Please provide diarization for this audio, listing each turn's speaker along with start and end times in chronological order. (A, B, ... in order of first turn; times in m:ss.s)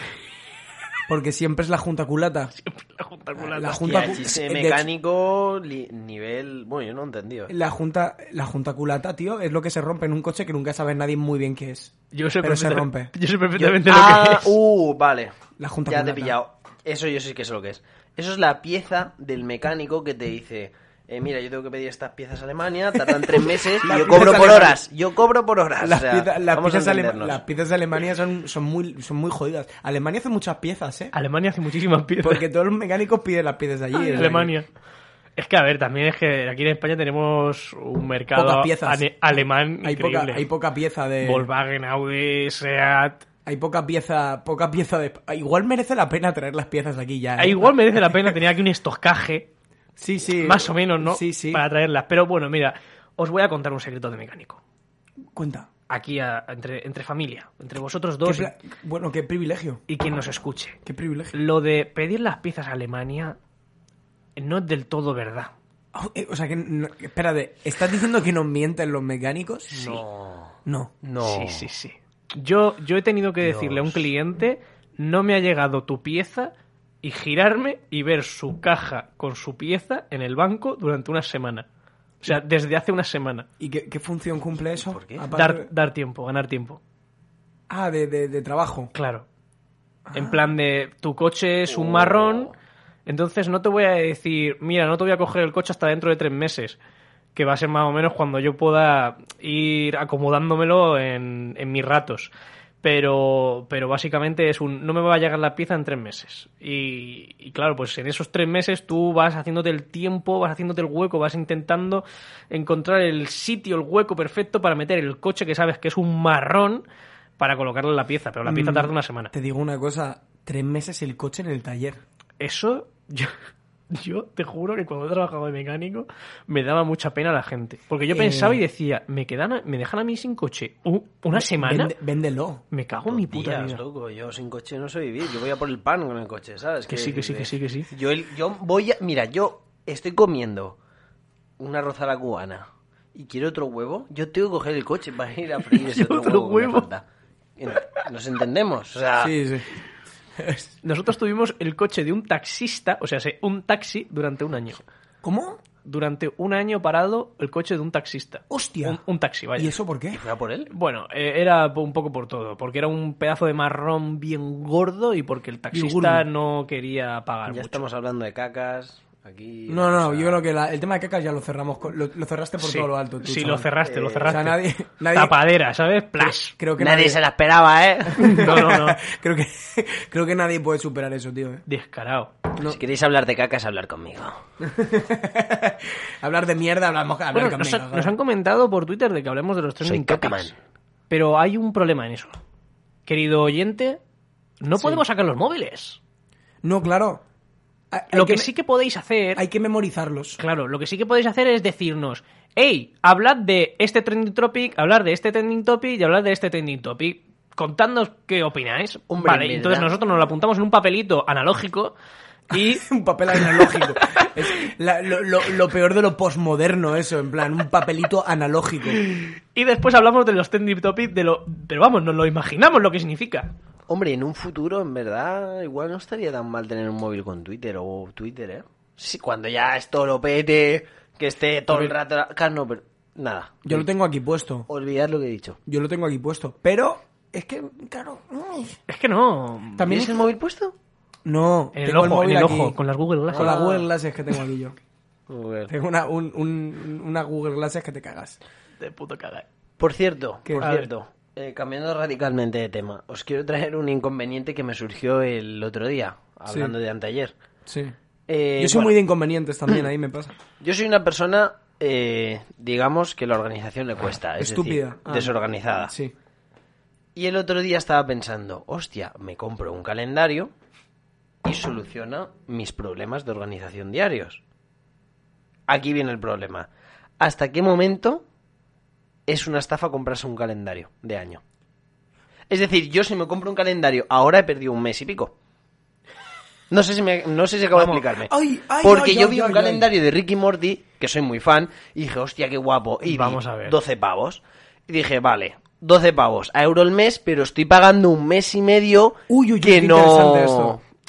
0:01.1-0:02.5 A
0:02.6-0:04.2 B
0:03.4-0:04.8 A
0:03.8-0:07.5 C
0:07.5-0:13.1 A
0:12.1-0:14.6 B
0:13.6-0:15.4 C
0:15.6-0:16.4 A
0:15.9-0:27.4 C
0:23.6-0:24.8 A
0:25.8-0:31.1 A
0:31.1-0:32.4 B
0:32.2-0:34.5 A
0:33.9-0:34.6 B
0:35.4-0:40.5 B
0:38.3-0:41.5 A
0:41.2-0:43.2 B
0:43.4-0:48.3 A
0:47.4-0:49.5 B
0:50.0-0:51.6 A
0:50.4-0:54.6 B
0:55.3-0:55.7 A
0:55.9-0:58.5 B
0:58.2-0:59.8 A
0:59.9-1:00.8 B
1:00.8-1:01.4 A
1:01.3-1:03.4 B
1:04.4-1:05.5 B
1:05.9-1:10.0 A
1:09.7-1:11.7 C
1:10.6-1:10.9 A
1:11.2-1:16.5 B
1:13.4-1:14.0 C
1:17.0-1:21.6 B
1:22.2-1:23.5 B
1:23.6-1:25.7 A
1:24.7-1:25.2 C
1:25.3-1:26.8 B
1:27.7-1:28.9 A
1:28.9-1:29.2 B
1:30.1-1:30.4 A
1:30.1-1:32.5 B
1:31.7-1:32.5 C
1:33.1-1:36.8 B
1:37.3-1:42.3 B
1:42.8-1:56.8 B
1:57.4-1:59.3 B
1:58.4-2:02.0 A
2:02.4-2:03.3 B
2:03.9-2:11.9 B
2:08.1-2:08.6 A
2:11.3-2:12.6 A
2:12.7-2:13.8 B
2:13.1-2:20.8 C
2:16.9-2:17.9 B
2:21.6-2:27.0 C
2:25.7-2:26.9 B
2:27.6-2:29.3 C
2:29.2-2:29.7 A
2:30.4-2:30.7 A
2:30.8-2:34.8 B
2:35.2-2:35.6 A
2:35.8-2:39.8 B
2:38.5-2:39.0 A
2:39.6-2:40.2 A
2:40.1-2:40.7 C
2:40.7-2:47.8 B
2:45.7-2:46.2 A
2:47.5-2:50.4 C
2:49.7-2:53.7 A
2:52.6-2:54.6 B
2:53.8-2:54.4 C
2:54.2-2:55.4 A
2:55.1-2:56.5 B
2:56.2-2:57.2 A
2:56.8-2:58.4 C
2:58.1-3:01.6 A
2:58.2-2:59.0 B
3:01.7-3:02.4 B
3:02.6-3:04.4 C
3:04.6-3:08.1 A
3:07.3-3:10.5 B
3:09.8-3:10.5 C
3:11.1-3:12.3 B
3:13.0-3:14.0 B
3:14.6-3:16.0 B
3:14.8-3:15.0 A
3:16.6-3:17.2 A
3:17.9-3:18.5 A
3:18.1-3:19.4 B
3:19.4-3:20.4 A
3:20.4-3:31.9 B
3:29.1-3:29.9 C
3:32.5-3:34.2 B
3:32.7-3:39.0 A
3:39.0-3:43.5 B
3:43.9-3:53.8 C
3:53.6-3:54.7 A
3:54.7-3:55.6 C
3:55.6-3:58.8 A
3:58.9-4:00.0 B
3:59.8-4:00.2 A
3:59.8-4:00.7 C
4:01.2-4:02.8 A
4:01.8-4:03.6 B
4:03.3-4:03.8 C
4:03.3-4:04.8 A
4:05.3-4:05.7 C
4:05.7-4:08.4 A
4:08.8-4:09.4 B
4:09.8-4:17.3 C
4:10.4-4:10.7 A
4:10.6-4:10.9 B
4:16.5-4:16.7 A
4:17.7-4:17.9 A
4:18.3-4:19.0 C
4:18.6-4:20.3 A
4:20.6-4:25.9 C
4:24.4-4:26.1 A
4:27.1-4:30.5 C
4:31.4-4:34.4 C
4:35.7-4:38.2 C
4:39.3-4:41.4 C
4:42.5-4:45.3 C
4:46.7-5:00.8 C
4:47.7-4:48.0 B
4:48.3-4:49.9 A
4:53.0-4:53.8 B
4:59.3-5:00.8 A